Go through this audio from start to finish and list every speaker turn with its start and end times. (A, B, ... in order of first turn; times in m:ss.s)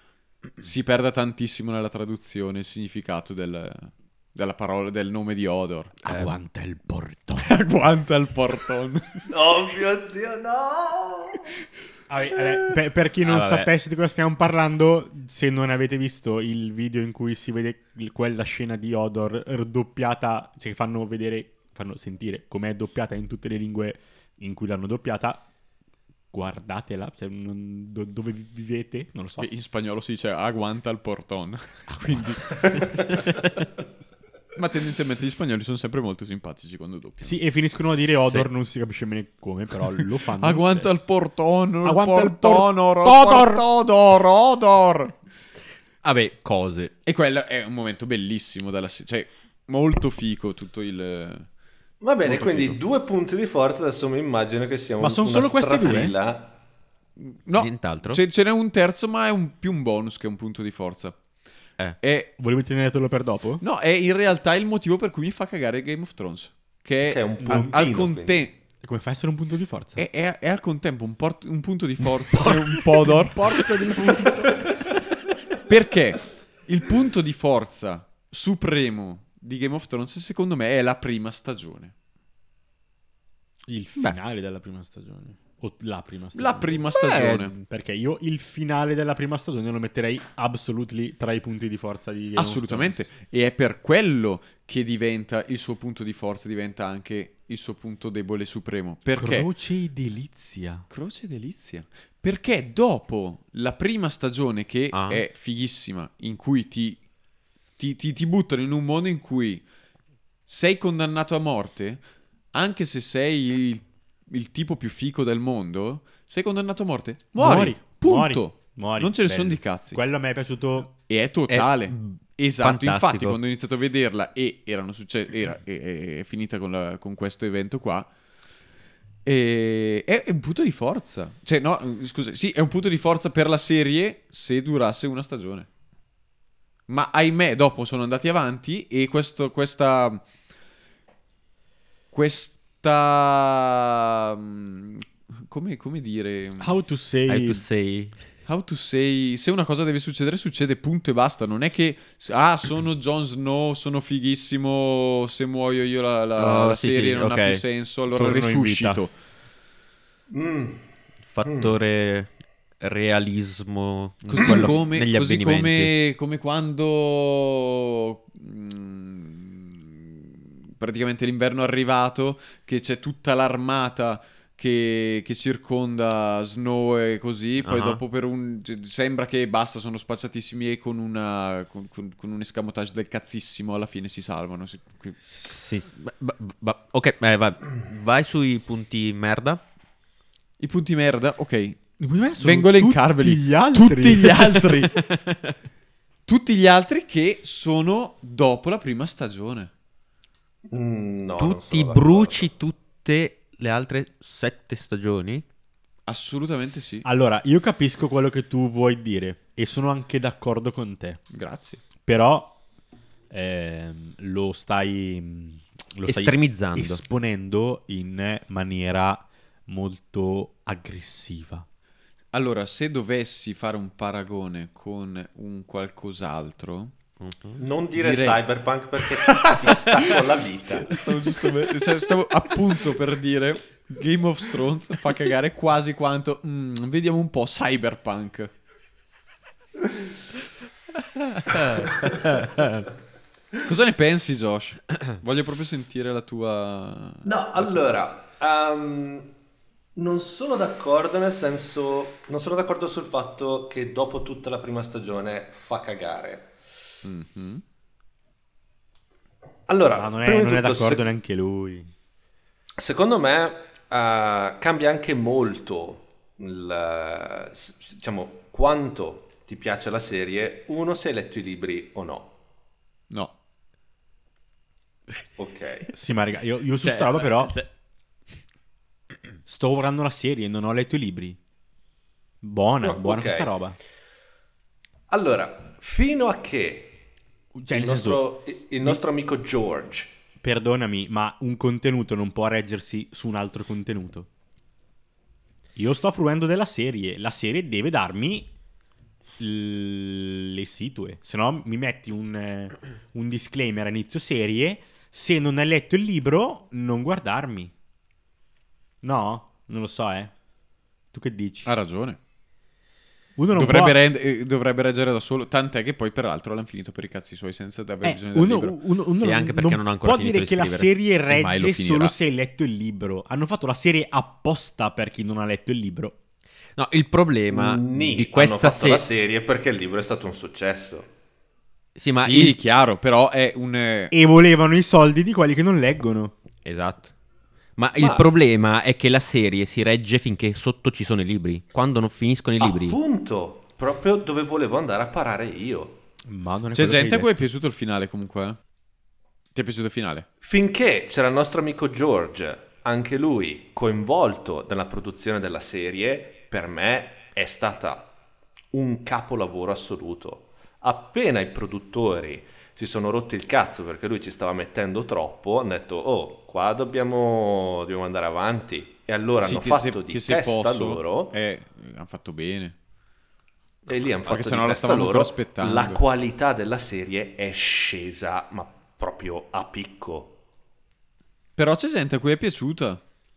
0:00.6-0:05.9 A
0:06.0-0:07.6 B
0:06.0-0:06.3 C
0:07.4-0:09.3 A
0:09.3-0:11.4 D
0:12.1-0:25.4 B
0:13.2-0:13.7 C
0:26.3-0:29.5 B
0:29.4-0:32.8 A
0:31.9-0:32.6 B
0:34.5-0:37.4 A
0:37.2-0:41.0 B
0:40.4-0:45.2 A
0:41.8-0:43.6 B
0:46.0-0:46.9 C
0:47.0-0:51.5 A
0:52.0-0:56.5 D
0:52.2-0:52.8 A
0:55.0-0:56.1 B
0:57.2-1:01.2 A
0:57.6-0:58.2 C
1:02.0-1:02.3 A
1:02.4-1:03.6 B
1:03.6-1:08.6 A
1:07.0-1:08.4 D
1:07.4-1:08.0 B
1:08.8-1:10.0 B
1:10.0-1:13.7 A
1:12.4-1:14.7 B
1:15.6-1:21.9 A
1:23.7-1:33.0 B
1:26.3-1:27.5 A
1:32.4-1:39.5 A
1:39.2-1:40.8 B
1:40.9-1:47.0 A
1:44.9-1:45.2 C
1:47.8-1:49.6 A
1:50.5-2:00.0 A
1:57.3-2:00.9 B
2:01.1-2:08.1 A
2:01.5-2:03.4 C
2:09.2-2:15.7 A
2:16.9-2:20.2 A
2:22.1-2:26.7 A
2:26.6-2:27.6 B
2:27.3-2:28.2 C
2:28.5-2:39.1 A
2:36.4-2:37.6 C
2:38.1-2:39.0 B
2:40.3-2:40.8 D
2:41.3-2:45.9 C
2:41.4-2:41.7 D
2:44.2-3:05.2 A
2:57.6-2:58.0 C
3:05.3-3:09.6 C
3:10.6-3:11.8 A
3:12.0-3:14.9 B
3:12.4-3:15.0 A
3:14.9-3:15.5 C
3:16.3-3:19.7 A
3:20.7-3:22.5 D
3:21.4-3:25.4 C
3:26.1-3:27.1 A
3:27.0-3:31.2 B
3:31.3-3:31.8 A
3:32.0-3:32.6 B
3:33.3-3:41.6 B
3:36.0-3:37.0 C
3:42.3-3:46.9 A
3:47.2-3:47.6 C
3:47.6-3:51.0 D
3:47.9-3:48.4 A
3:49.3-3:50.1 A
3:50.8-3:58.5 A
4:01.3-4:02.8 C
4:03.6-4:07.8 A
4:07.2-4:09.3 D
4:10.0-4:16.5 D
4:17.0-4:17.6 A
4:19.7-4:21.1 D
4:19.9-4:21.9 B
4:22.8-4:32.3 D
4:35.4-4:35.9 D
4:35.9-4:37.6 B
4:36.8-4:37.7 C
4:39.4-4:41.4 B
4:42.4-4:43.8 B
4:42.8-4:43.5 D
4:45.1-4:47.0 D
4:47.6-4:48.2 B
4:47.7-4:50.1 D
4:50.4-4:54.3 B
4:55.8-4:58.5 B
4:59.4-5:07.7 B
5:09.0-5:10.3 B
5:11.1-5:11.7 B
5:11.6-5:12.2 A
5:13.4-5:14.0 B
5:13.5-5:18.8 A
5:18.0-5:26.2 B
5:19.2-5:20.9 C
5:21.3-5:22.2 A
5:26.8-5:29.0 C
5:27.5-5:31.1 D
5:32.0-5:32.6 C
5:32.2-5:34.1 A
5:34.1-5:36.3 B
5:36.6-5:37.1 C
5:37.8-5:43.0 C
5:38.0-5:38.2 D
5:42.6-5:46.0 D
5:46.2-5:47.3 B
5:46.7-5:48.6 A
5:49.5-5:50.3 A
5:50.4-5:58.1 D
5:58.7-6:11.3 D
6:09.4-6:12.8 A
6:13.8-6:20.4 D
6:14.2-6:16.0 A
6:21.6-6:23.0 A